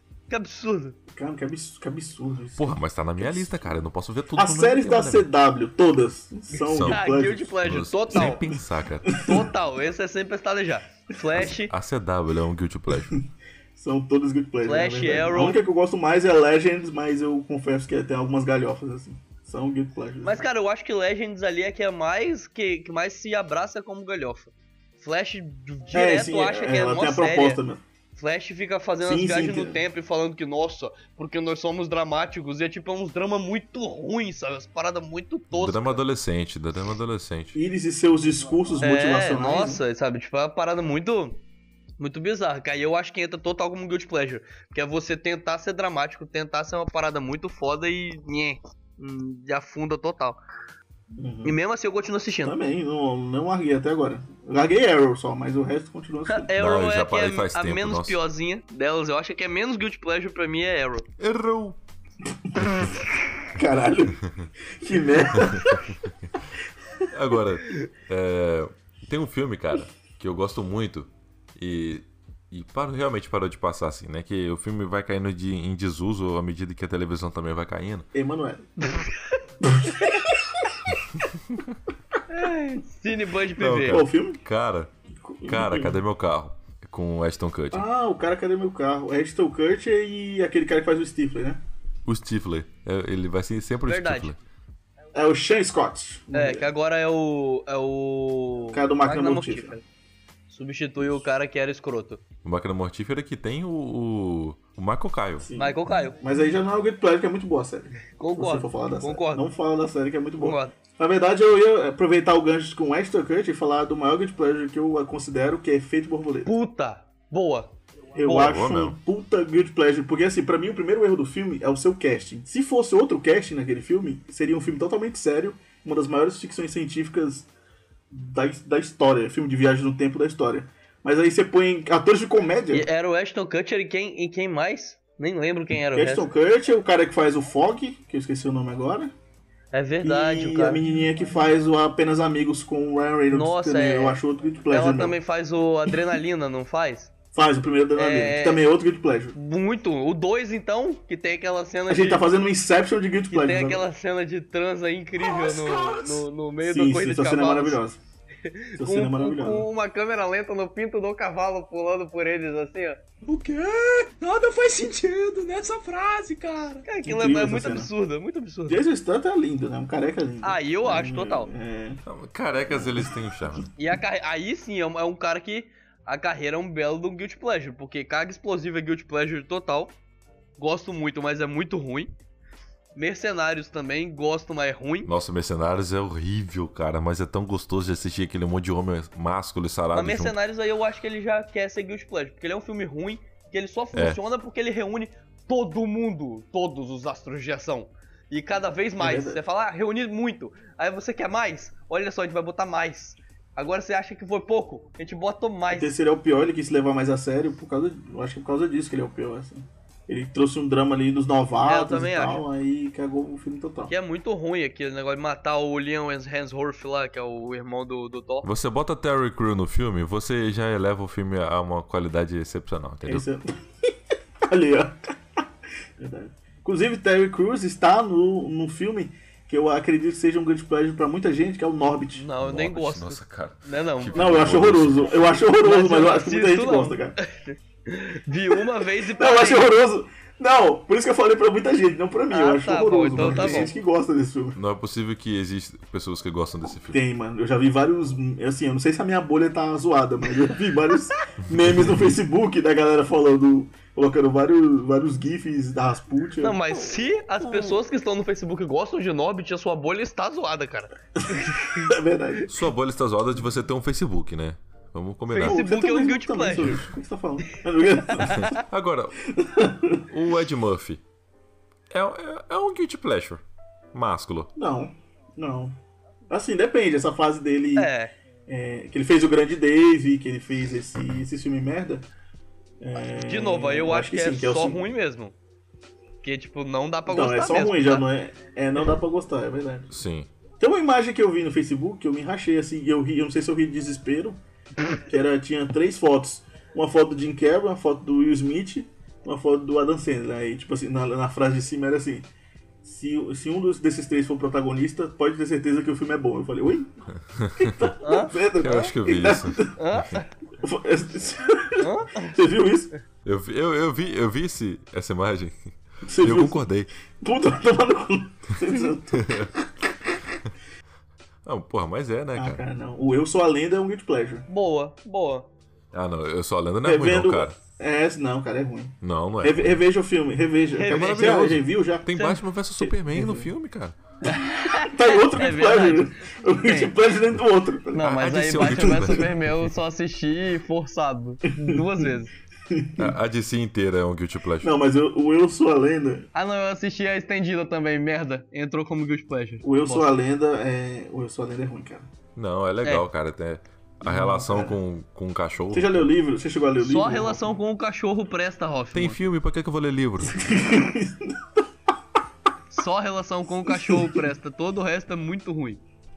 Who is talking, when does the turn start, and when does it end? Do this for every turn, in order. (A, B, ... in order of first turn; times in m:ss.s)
0:00.3-0:01.0 A
0:01.1-0:03.8 B
0:02.6-0:05.3 C
0:04.4-0:07.5 B
0:06.5-0:08.4 A
0:06.6-0:07.0 C
0:07.6-0:09.3 C
0:09.2-0:11.7 A
0:11.3-0:13.2 C
0:13.8-0:20.4 B
0:14.6-0:15.6 A
0:20.2-0:27.6 A
0:25.9-0:27.8 B
0:28.2-0:36.0 A
0:29.0-0:29.8 B
0:35.5-0:37.6 C
0:37.5-0:39.8 B
0:38.8-0:41.4 A
0:42.0-0:50.4 A
0:51.2-0:51.6 B
0:51.4-0:52.5 A
0:52.4-0:56.5 B
0:56.3-1:01.1 A
0:56.6-0:58.2 C
1:01.2-1:01.8 C
1:03.5-1:04.2 B
1:04.8-1:05.8 B
1:05.4-1:05.6 C
1:07.1-1:18.1 C
1:18.1-1:18.7 B
1:19.6-1:20.6 B
1:22.3-1:24.0 A
1:23.6-1:24.9 C
1:23.8-1:24.4 B
1:25.2-1:26.0 B
1:25.5-1:27.8 C
1:27.7-1:31.6 B
1:32.0-1:34.4 C
1:33.9-1:34.3 A
1:35.1-1:36.7 B
1:36.3-1:39.8 A
1:38.7-1:39.8 B
1:40.5-1:42.2 A
1:42.4-1:45.4 C
1:45.4-1:56.5 B
1:45.6-1:46.2 A
1:48.2-1:49.5 A
1:50.4-1:50.7 A
1:56.4-1:57.7 A
1:58.1-2:07.5 B
1:58.3-1:59.0 C
2:08.1-2:12.9 B
2:12.7-2:16.3 A
2:15.9-2:19.1 B
2:19.7-2:20.8 A
2:20.0-2:25.2 B
2:23.3-2:24.2 A
2:24.7-2:27.1 A
2:27.3-2:29.4 B
2:28.0-2:28.6 A
2:29.3-2:32.2 A
2:31.9-2:33.8 B
2:33.3-2:37.8 A
2:35.3-2:36.2 D
2:36.6-2:38.0 B
2:38.4-2:43.0 A
2:38.8-2:39.7 B
2:43.2-2:46.8 D
2:46.8-2:48.8 A
2:47.0-2:47.9 B
2:48.7-2:52.0 B
2:50.4-2:51.5 A
2:52.0-2:53.7 C
2:52.7-2:53.1 B
2:53.8-2:59.9 A
3:00.6-3:02.1 A
3:03.0-3:05.1 A
3:05.0-3:10.3 C
3:09.9-3:26.0 A
3:13.9-3:14.2 C
3:19.0-3:19.4 B
3:25.7-3:33.9 B
3:31.6-3:32.4 A
3:33.9-3:38.5 A
3:38.4-3:43.2 C
3:43.0-3:43.9 B
3:44.4-3:45.4 B
3:46.0-3:52.3 B
3:52.1-3:54.2 A
3:52.4-3:55.3 C
3:54.1-3:57.2 B
3:55.6-3:59.7 A
3:59.2-4:04.6 B
4:02.3-4:03.7 A
4:03.2-4:03.6 C
4:04.6-4:07.0 C
4:06.9-4:16.7 B
4:16.4-4:21.9 A
4:21.8-4:22.4 B
4:22.5-4:25.6 C
4:25.3-4:26.8 A
4:25.4-4:28.5 B
4:28.2-4:28.5 A
4:28.2-4:29.2 C
4:29.2-4:30.0 B
4:30.1-4:31.0 C
4:31.9-4:33.4 C
4:33.9-4:34.5 C
4:34.5-4:35.8 B
4:36.3-4:37.9 B
4:37.8-4:38.1 A
4:38.5-4:42.1 B
4:42.8-4:44.8 B
4:43.2-4:45.3 A
4:46.2-4:48.0 A
4:47.1-4:49.9 B
4:49.9-4:50.3 C
4:50.6-4:54.4 B
4:55.0-5:02.3 B
5:02.8-5:06.9 B
5:07.4-5:07.9 C
5:07.6-5:10.0 B
5:08.0-5:08.4 A
5:08.6-5:10.0 C
5:09.8-5:10.3 A
5:10.6-5:12.9 B
5:11.8-5:12.3 A
5:13.2-5:16.9 C
5:16.0-5:19.6 B
5:19.2-5:19.5 C
5:21.4-5:22.6 C
5:22.3-5:24.4 B
5:24.5-5:25.5 A
5:25.9-5:27.5 C
5:26.8-5:32.1 B
5:29.0-5:29.8 C
5:30.7-5:31.4 A
5:30.9-5:34.0 C
5:32.1-5:32.4 A
5:32.8-5:33.5 B
5:34.2-5:36.9 A
5:34.8-5:39.2 B
5:37.9-5:42.3 A
5:38.0-5:39.5 C
5:41.5-5:41.9 B
5:42.7-5:43.1 B
5:43.0-5:44.7 C
5:44.6-5:46.3 B
5:46.3-5:50.1 A
5:49.6-5:52.1 B
5:52.4-5:56.1 C
5:54.0-5:54.8 B
5:55.7-5:57.5 B
5:56.8-5:59.2 A
5:58.9-6:00.4 C
6:00.3-6:01.4 B
6:02.7-6:05.8 A
6:03.6-6:04.3 B